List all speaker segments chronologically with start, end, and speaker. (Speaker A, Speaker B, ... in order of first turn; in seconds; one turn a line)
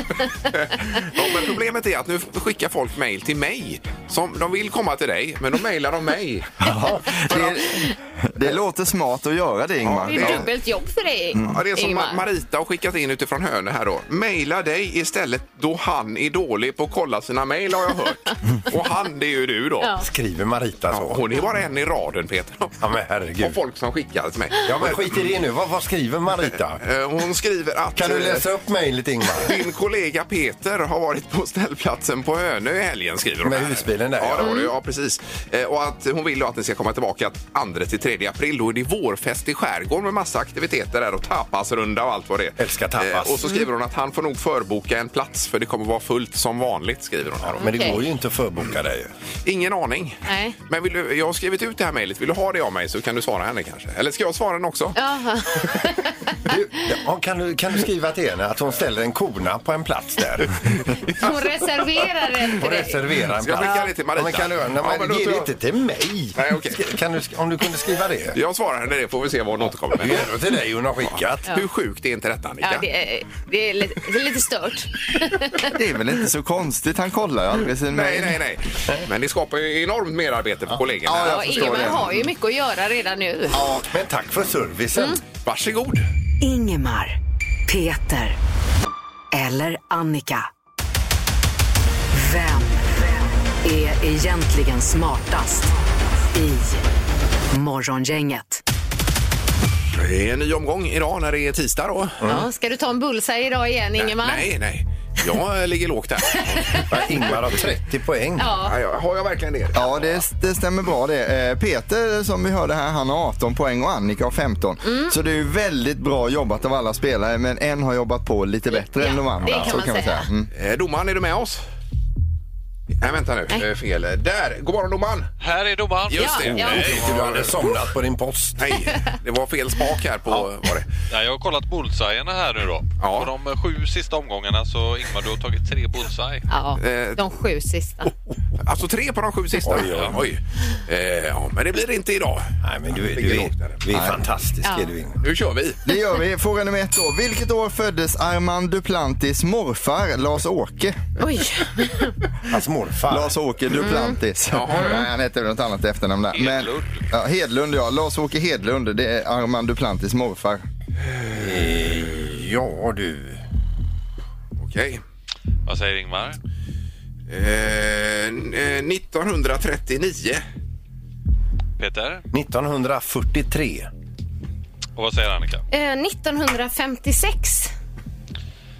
Speaker A: 0.5-6.5
Speaker B: 6.6-10.5
Speaker C: 6.7-7.4
Speaker A: 9.8-10.5
Speaker D: 10.1-12.2
Speaker A: 11.4-19.9
Speaker C: 20.0-21.2
Speaker A: 20.9-22.8
Speaker C: 22.8-23.6
Speaker A: 23.4-25.2
Speaker C: 24.6-26.8
Speaker A: 26.8-28.5
Speaker C: 27.9-29.5
Speaker A: 29.4-48.0
Speaker C: 33.4-34.5
Speaker D: 34.4-34.7
Speaker C: 42.6-43.4
Speaker C: 47.4-49.1
Speaker D: 47.6-48.0
Speaker A: 49.4-55.0
Speaker D: 50.2-50.5
Speaker D: 55.0-56.5
Speaker C: 56.5-60.6
Speaker D: 61.2-63.0
Speaker C: 62.6-68.4
Speaker A: 63.4-65.5
Speaker D: 63.6-63.9
Speaker A: 66.3-66.9
Speaker A: 68.3-70.3
Speaker C: 69.9-71.5
Speaker A: 71.4-72.8
Speaker D: 72.6-75.7
Speaker B: 75.7-78.4
Speaker A: 77.9-81.9
Speaker B: 81.0-82.3
Speaker D: 81.2-83.6
Speaker B: 83.5-83.9
Speaker C: 83.9-85.2
Speaker D: 84.9-85.2
Speaker A: 85.4-86.0
Speaker E: 86.4-88.4
Speaker E: 89.3-90.5
Speaker E: 92.1-95.7
Speaker E: 96.3-96.8
Speaker E: 97.5-98.6
Speaker A: 99.9-102.2
Speaker C: 102.2-102.5
Speaker D: 102.2-104.5
Speaker A: 104.0-106.8
Speaker D: 106.3-107.3
Speaker C: 106.9-108.5
Speaker D: 108.4-108.7
Speaker A: 108.6-110.2
Speaker B: 109.7-120.5
Speaker D: 114.8-115.1
Speaker D: 118.7-120.3
Speaker A: 120.5-121.6
Speaker A: 123.0-125.3
Speaker F: 125.4-127.2
Speaker A: 126.1-127.6
Speaker D: 126.2-127.0
Speaker C: 126.5-128.8
Speaker A: 128.6-130.9
Speaker F: 131.1-136.5
Speaker A: 133.0-133.3
Speaker D: 136.5-138.1
Speaker A: 136.8-137.2
Speaker A: 138.6-143.8
Speaker C: 139.6-140.2
Speaker C: 142.6-145.2
Speaker B: 143.9-144.2
Speaker D: 144.6-144.9
Speaker A: 145.2-145.8
Speaker B: 145.8-151.0
Speaker D: 151.2-152.2
Speaker C: 152.5-153.4
Speaker B: 153.1-160.6
Speaker D: 153.7-154.2
Speaker A: 154.5-155.1
Speaker F: 156.3-157.1
Speaker C: 161.3-163.4
Speaker A: 164.6-165.0
Speaker F: 165.7-166.4
Speaker A: 167.3-170.4
Speaker F: 171.8-172.2
Speaker C: 172.3-173.9
Speaker F: 174.9-175.6
Speaker D: 175.7-177.7